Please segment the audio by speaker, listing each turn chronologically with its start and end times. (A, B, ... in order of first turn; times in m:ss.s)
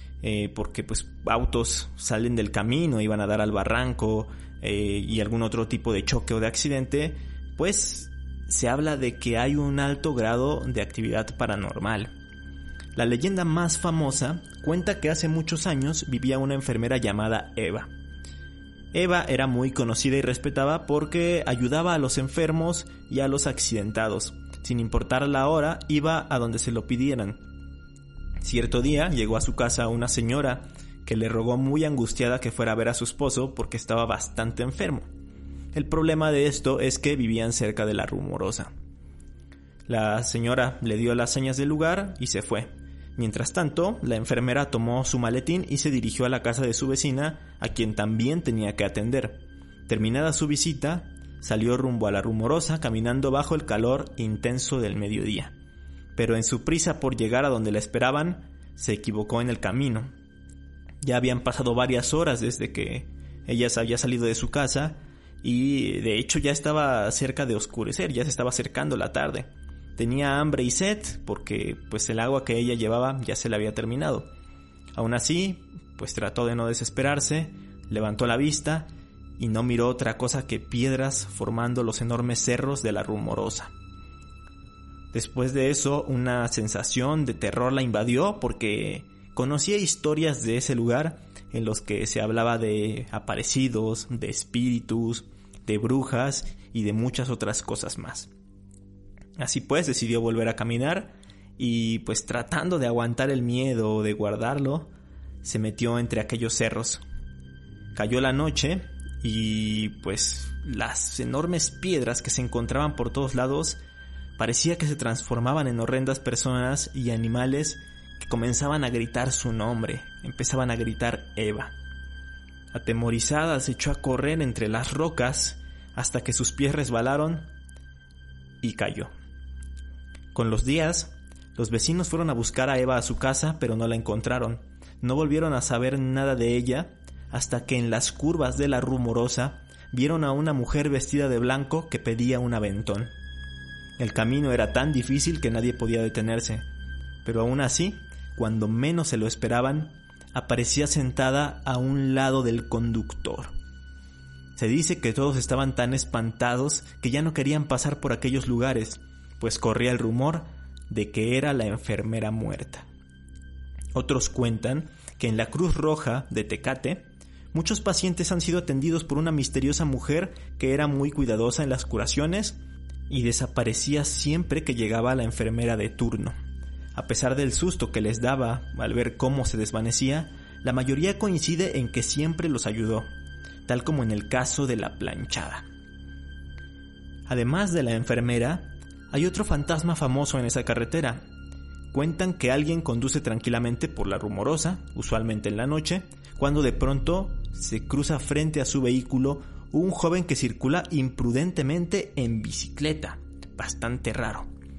0:00.2-0:12.1 A
0:13.0-0:17.9 A
0:18.9-0:27.4 A
0:28.4-0:35.1 A
0:35.7-0:38.7 A
0:39.9-0:55.5 A
0:56.2-1:00.1 A
1:01.0-1:14.3 A
1:15.0-1:23.7 A
1:25.1-1:38.3 A
1:39.4-1:44.9 A
1:45.4-1:47.0 A
1:47.9-1:53.8 A
1:54.4-2:01.7 A
2:02.7-2:07.5 A
2:08.6-2:09.1 A
2:10.3-2:23.1 A
2:24.0-2:26.7 A
2:27.2-2:33.5 A
2:34.6-2:42.9 A
2:43.9-2:52.6 A
2:53.1-2:56.4 A
2:57.0-3:03.1 A
3:03.7-3:05.7 A
3:07.3-3:11.3 A
3:11.9-3:24.5 A